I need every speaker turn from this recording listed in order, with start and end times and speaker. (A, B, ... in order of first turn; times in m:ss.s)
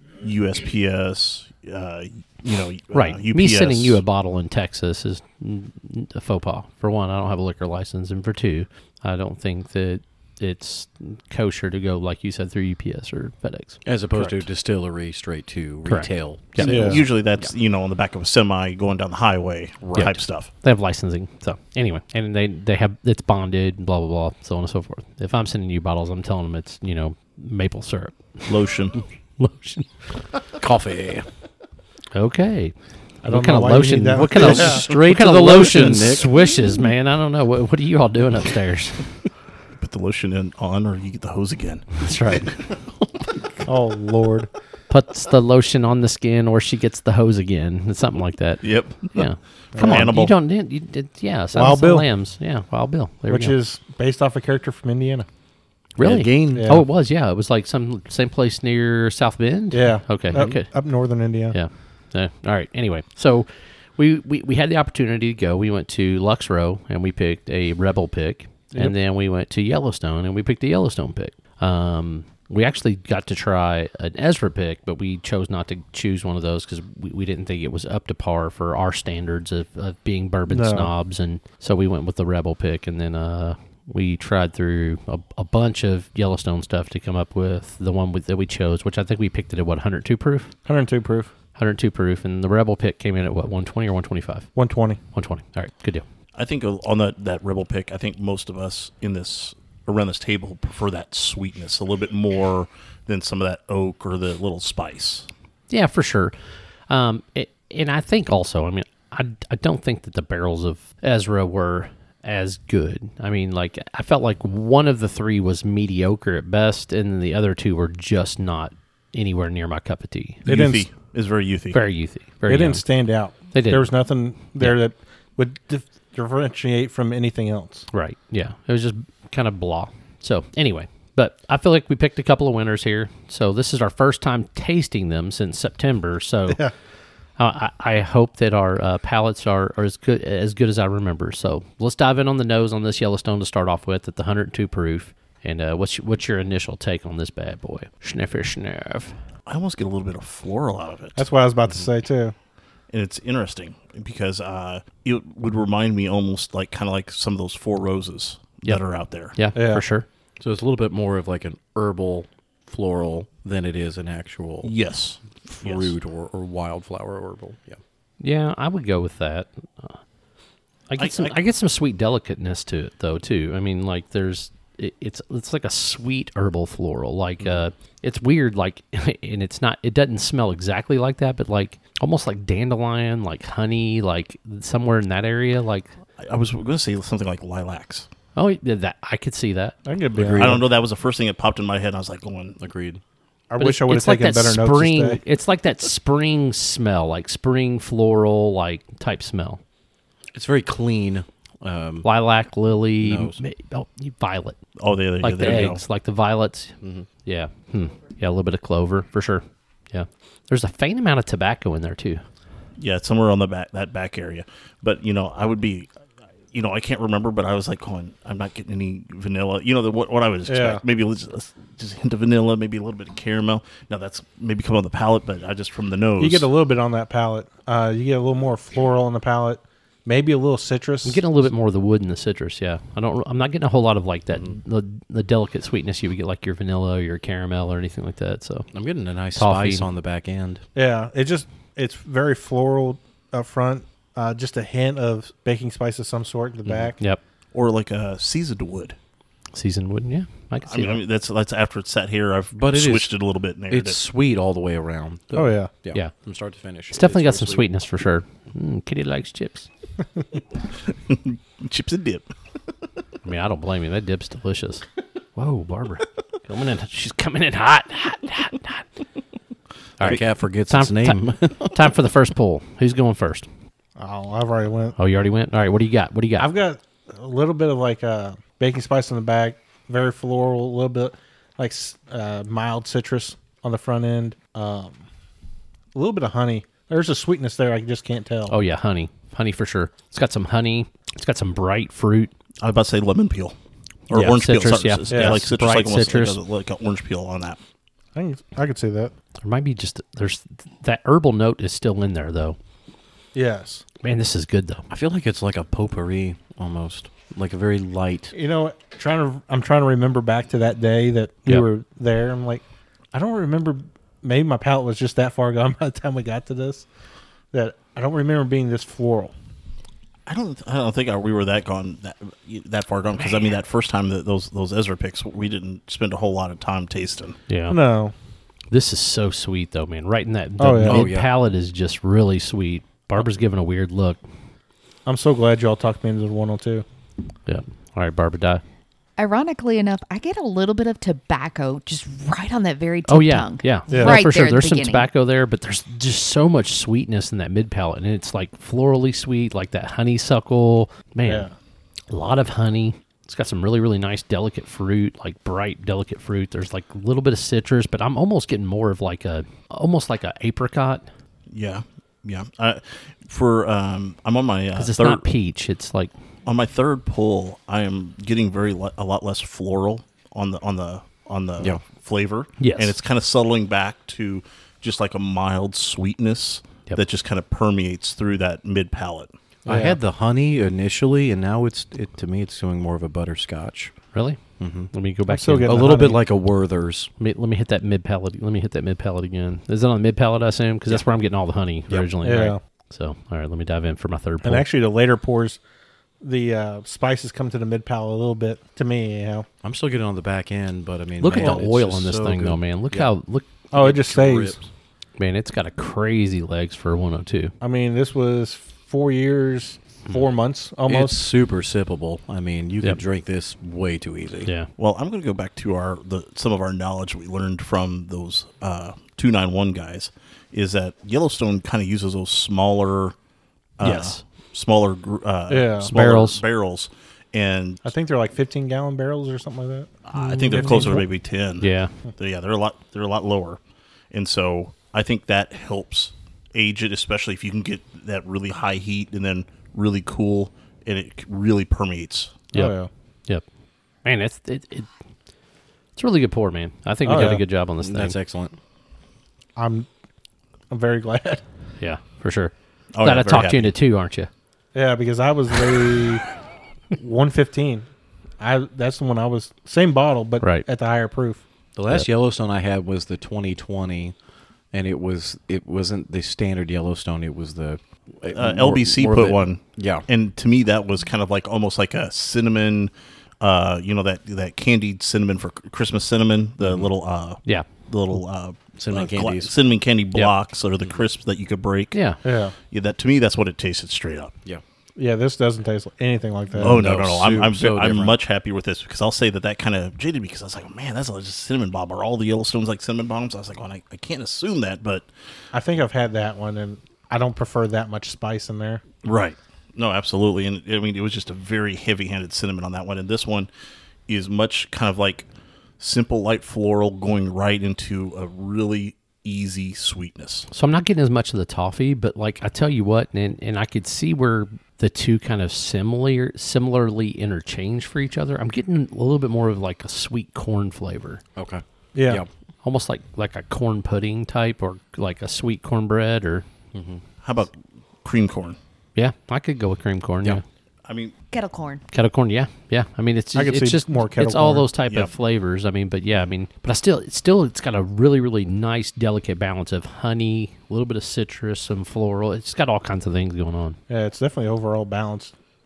0:00.2-0:04.0 A
0:02.9-0:14.4 B
0:13.8-0:17.5 C
0:15.9-0:16.7 B
0:16.6-0:20.5 A
0:16.6-0:17.0 D
0:20.0-0:28.5 B
0:28.5-0:29.0 A
0:29.4-0:30.2 B
0:30.6-0:31.3 C
0:32.1-0:32.8 B
0:33.2-0:34.8 D
0:33.3-0:39.2 B
0:34.2-0:36.6 C
0:39.8-0:42.0 A
0:42.0-0:42.5 B
0:43.6-0:44.5 D
0:44.9-0:53.6 B
0:48.6-0:50.3 A
0:49.8-0:50.1 D
0:51.5-0:52.1 D
0:53.3-0:55.3 D
0:56.0-1:00.7 B
0:56.0-0:56.8 C
0:56.6-0:56.8 D
0:59.7-1:01.6 D
1:01.5-1:30.5 B
1:20.5-1:20.9 D
1:30.7-1:31.3 D
1:31.6-1:34.5 B
1:34.6-1:35.0 D
1:35.1-1:36.0 B
1:36.4-1:45.3 A
1:45.7-1:46.4 B
1:46.9-2:00.4 B
2:00.4-2:01.8 A
2:00.5-2:00.9 D
2:01.7-2:02.9 B
2:02.5-2:07.9 D
2:03.5-2:03.9 B
2:07.9-2:16.6 B
2:17.4-2:29.2 B
2:29.5-2:31.2 A
2:31.2-2:32.3 D
2:32.9-2:39.4 A
2:39.3-2:40.1 B
2:39.5-2:39.8 D
2:40.4-2:44.7 C
2:44.6-2:45.9 A
2:45.5-2:47.8 C
2:48.2-2:50.0 B
2:50.9-3:05.9 B
2:51.0-2:51.4 A
3:06.2-3:08.1 A
3:08.4-3:09.8 B
3:09.9-3:10.6 D
3:10.2-3:10.6 C
3:10.2-3:12.6 A
3:12.6-3:13.0 C
3:13.5-3:15.2 D
3:13.6-3:19.6 B
3:20.3-3:22.1 C
3:22.0-3:24.6 B
3:23.0-3:23.4 C
3:24.8-3:25.8 A
3:25.2-3:32.2 B
3:26.8-3:27.1 C
3:32.8-3:35.9 A
3:36.5-3:46.5 A
3:40.5-3:40.8 D
3:46.2-3:51.2 D
3:51.0-3:58.7 B
3:58.7-4:00.6 C
3:59.4-3:59.9 B
4:00.8-4:07.0 D
4:06.6-4:06.9 C
4:07.5-4:09.0 A
4:09.5-4:11.0 B
4:10.6-4:14.0 A
4:12.5-4:13.1 C
4:13.7-4:17.7 C
4:15.3-4:15.7 D
4:16.9-4:19.7 B
4:20.9-4:22.2 A
4:23.2-4:24.8 B
4:25.4-4:28.9 B
4:30.0-4:33.5 B
4:30.0-4:31.9 C
4:34.0-4:35.0 D
4:35.0-4:36.5 B
4:36.4-4:45.0 D
4:45.9-4:48.6 D
4:48.5-4:52.3 B
4:52.6-4:53.6 A
4:54.1-4:57.6 A
4:54.1-4:56.4 B
4:55.1-4:55.4 D
4:58.2-4:59.1 D
4:59.4-5:02.6 B
5:03.3-5:03.8 D
5:04.0-5:04.8 B
5:04.9-5:08.3 C
5:08.3-5:16.9 D
5:17.5-5:19.3 D
5:20.3-5:27.4 A
5:27.5-5:27.8 B
5:27.7-5:28.1 D
5:28.7-5:34.2 B
5:30.6-5:31.1 D
5:30.9-5:31.3 C
5:35.1-5:36.8 D
5:37.5-5:38.6 B
5:39.2-5:45.1 E
5:43.1-5:51.5 B
5:43.9-5:44.2 D
5:51.3-5:51.5 D
5:52.1-6:01.0 B
6:01.5-6:05.2 A
6:04.8-6:06.1 B
6:06.5-6:19.3 A
6:12.6-6:13.0 B
6:19.7-6:20.0 D
6:19.7-6:23.9 C
6:24.1-6:24.4 B
6:24.6-6:24.9 C
6:24.9-6:25.8 B
6:25.3-6:26.2 D
6:25.6-6:27.1 C
6:27.2-6:34.6 B
6:32.2-6:32.6 D
6:34.4-6:35.6 D
6:36.2-6:39.5 D
6:39.6-6:43.1 C
6:41.2-6:43.5 B
6:43.7-6:44.6 D
6:43.7-6:44.7 C
6:45.2-6:47.5 B
6:47.6-6:51.2 D
6:50.8-6:54.5 C
6:54.8-7:03.2 A
7:03.8-7:07.8 A
7:03.8-7:04.2 B
7:05.5-7:05.9 D
7:05.9-7:06.4 B
7:07.8-7:09.9 D
7:10.1-7:13.6 A
7:10.2-7:10.9 B
7:10.5-7:11.0 D
7:11.6-7:11.9 B
7:14.1-7:22.4 A
7:22.5-7:22.9 D
7:24.0-7:24.9 B
7:26.0-7:28.2 B
7:27.0-7:27.4 D
7:27.1-7:28.6 C
7:29.6-7:29.9 D
7:30.7-7:31.4 D
7:31.8-7:34.3 B
7:32.9-7:33.7 A
7:34.7-7:36.2 D
7:37.0-7:37.9 D
7:38.4-7:41.4 D
7:40.4-7:40.7 B
7:41.8-7:44.1 C
7:44.7-7:50.0 C
7:48.3-8:02.0 A
7:56.6-7:56.9 C
7:58.8-7:59.5 C
8:01.9-8:02.2 B
8:02.2-8:02.6 D
8:02.7-8:04.3 A
8:05.0-8:06.8 D
8:06.6-8:08.2 C
8:06.6-8:15.1 A
8:15.5-8:18.8 D
8:19.0-8:23.5 A
8:24.1-8:25.3 A
8:25.8-8:30.5 A
8:30.5-8:41.2 B
8:41.4-8:42.3 C
8:42.0-8:42.2 D
8:42.6-8:46.5 B
8:46.7-8:47.0 C
8:47.2-8:48.6 A
8:49.0-8:50.4 B
8:50.8-8:51.1 A
8:51.3-8:51.8 E
8:51.9-9:03.8 B
8:53.4-8:54.7 D
9:03.9-9:05.3 D